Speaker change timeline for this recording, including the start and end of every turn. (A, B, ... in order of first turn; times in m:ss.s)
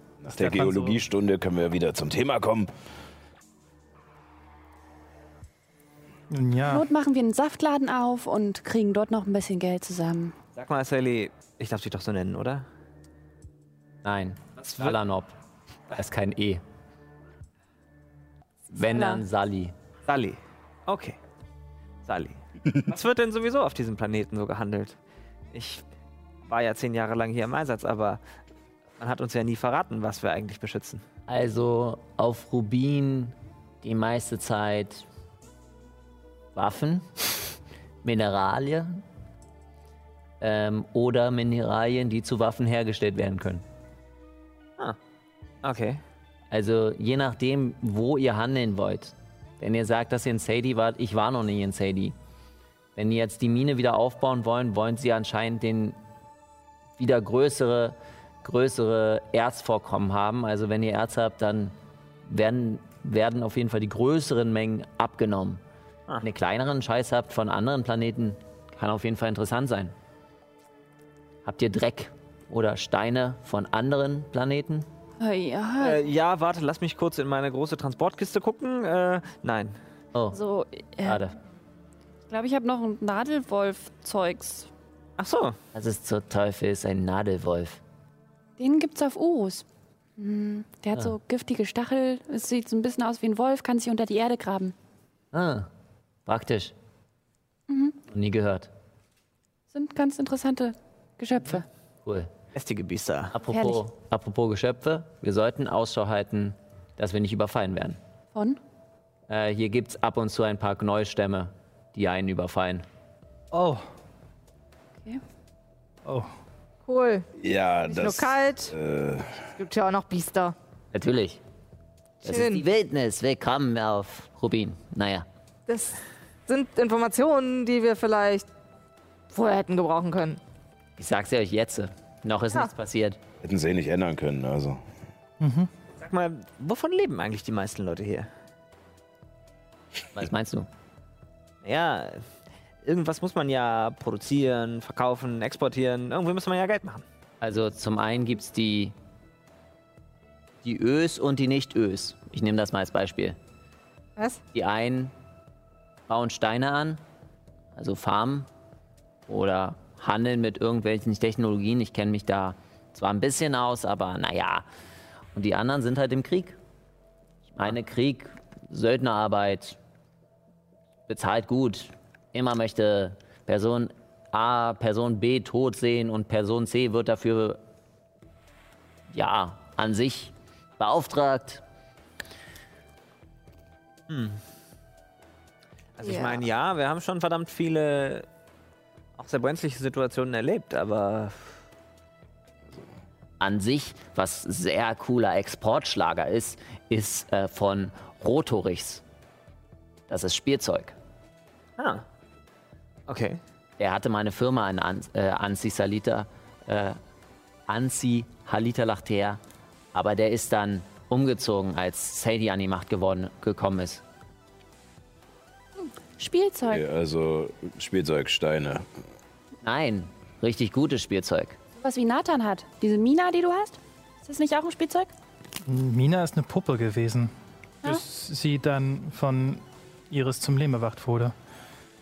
0:00.2-0:02.7 A
0:00.4-0:01.0 B
0:06.3-0:06.9 B
0:06.6-0:10.3 C
0:10.5-0:12.6 D
0:14.0-0:15.4 E
0:14.6-0:15.0 D
0:15.9-0:16.6 E
0:18.7-0:19.7 E
0:18.8-0:19.2 C
0:20.1-0:21.2 D
0:22.0-0:25.0 D
0:25.5-0:25.8 D
0:26.4-0:28.2 D
0:29.0-0:31.0 D
0:31.3-0:35.0 E
0:36.5-0:37.5 E
0:38.0-0:39.0 E
0:40.4-0:43.6 E
0:45.6-0:46.0 D
0:46.5-0:52.2 E
0:53.0-0:56.0 E
0:57.0-1:01.7 E
1:02.2-1:05.6 E
1:06.2-1:09.9 E
1:11.4-1:14.9 E
1:15.2-1:16.0 C
1:15.8-1:19.7 D
1:20.1-1:20.4 E
1:20.3-1:21.2 C
1:21.0-1:21.4 E
1:22.3-1:24.7 C
1:25.2-1:25.6 D
1:25.7-1:27.8 E
1:28.6-1:29.6 C
1:30.2-1:34.7 C
1:35.3-1:35.7 E
1:36.2-1:36.7 E
1:37.7-1:38.0 C
1:38.1-1:38.7 E
1:39.7-1:41.6 C
1:42.0-1:42.3 E
1:42.5-1:43.4 D
1:43.3-1:48.0 E
1:43.5-1:43.8 C
1:48.3-1:48.6 C
1:49.3-1:52.8 E
1:53.5-1:53.8 B
1:56.8-1:57.3 F
1:57.4-1:59.4 A
1:57.9-1:58.7 F
1:59.6-2:00.5 F
2:00.9-2:01.4 E
2:02.2-2:05.2 E
2:02.2-2:02.6 F
2:05.7-2:08.4 F
2:09.3-2:10.4 F
2:11.0-2:13.2 E
2:13.4-2:14.8 A
2:15.4-2:15.7 B
2:15.9-2:18.3 D
2:20.1-2:20.7 E
2:21.6-2:22.2 D
2:22.8-2:27.0 D
2:27.4-2:28.9 E
2:30.6-2:33.4 E
2:34.5-2:35.1 E
2:36.1-2:37.0 E
2:37.7-2:38.5 E
2:39.3-2:44.7 E
2:45.3-2:46.6 E
2:47.6-2:49.8 E
2:51.1-2:57.6 E
2:59.1-3:01.6 E
3:04.1-3:04.4 D
3:06.0-3:08.3 D
3:06.0-3:06.4 F
3:09.2-3:11.5 D
3:13.4-3:19.0 E
3:20.1-3:21.0 E
3:21.8-3:22.0 D
3:23.1-3:23.4 D
3:23.8-3:27.0 E
3:27.7-3:29.4 E
3:29.9-3:34.0 E
3:35.8-3:36.8 C
3:36.6-3:38.8 A
3:39.6-3:41.6 E
3:41.8-3:45.1 C
3:45.6-3:47.3 B
3:47.8-3:51.3 B